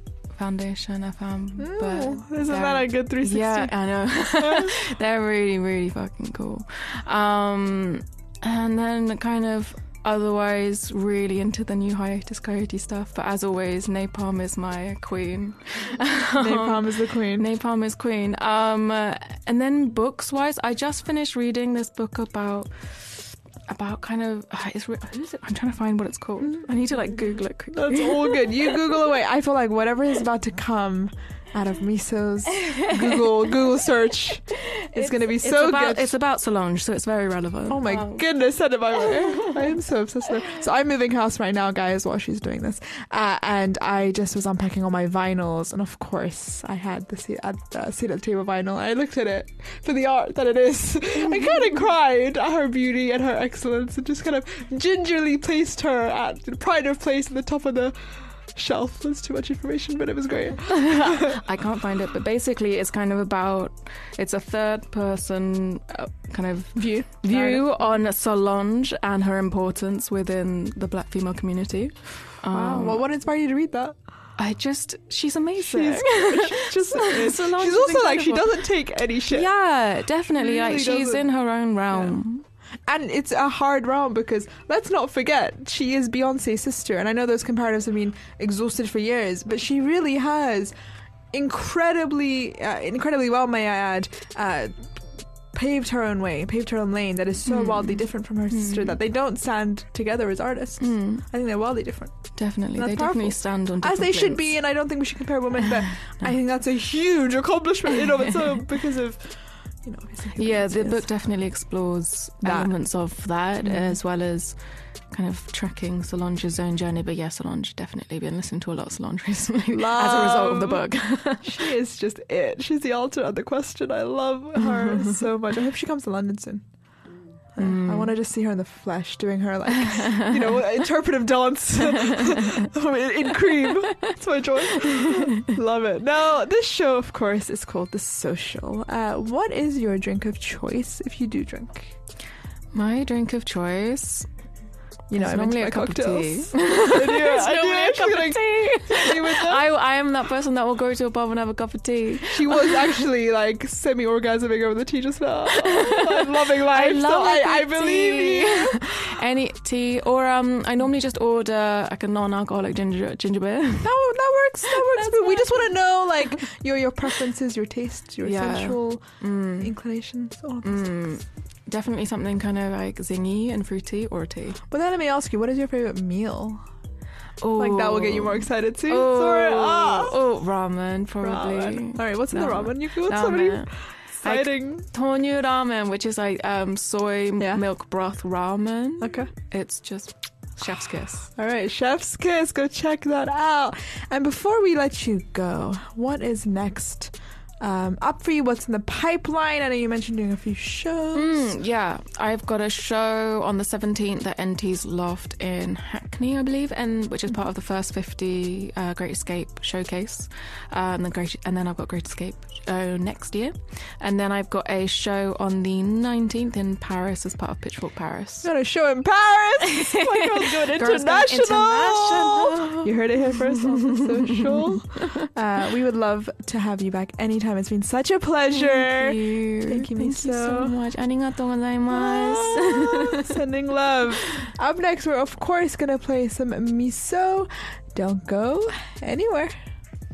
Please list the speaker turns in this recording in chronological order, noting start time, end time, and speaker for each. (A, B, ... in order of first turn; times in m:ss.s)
0:00.3-0:28.8 A
0:01.6-0:04.8 B
0:16.4-0:17.5 B
0:27.7-0:36.1 B
0:34.9-0:38.2 A
0:37.7-1:01.4 B
1:00.7-1:13.0 A
1:06.7-1:07.7 B
1:12.5-1:14.0 B
1:14.4-1:18.6 A
1:15.6-1:19.5 B
1:19.3-1:22.4 A
1:20.4-1:21.3 B
1:21.9-1:22.2 B
1:22.8-1:30.8 B
1:31.3-1:51.1 B
1:37.4-1:39.0 A
1:40.8-1:41.2 A
1:42.4-1:44.5 A
1:50.4-1:54.6 A
1:52.4-1:52.7 B
1:53.6-1:54.0 B
1:55.1-2:01.6 A
1:59.7-2:22.0 B
2:04.6-2:05.2 A
2:07.6-2:08.1 A
2:09.9-2:10.3 A
2:12.0-2:12.5 A
2:15.0-2:15.5 A
2:22.7-2:24.3 A
2:25.1-2:29.6 B
2:25.1-2:33.0 A
2:32.3-2:39.0 B
2:35.6-2:43.9 A
2:43.8-2:50.9 B
2:44.7-2:45.8 A
2:48.2-2:49.7 A
2:50.6-2:54.6 A
2:54.7-2:56.7 B
2:57.4-3:11.3 A
2:57.6-3:00.1 B
3:01.2-3:04.9 B
3:09.0-3:09.3 B
3:11.3-3:21.5 B
3:21.1-3:38.5 A
3:38.4-3:50.8 B
3:40.4-3:45.2 A
3:48.5-3:53.4 A
3:51.9-3:59.6 B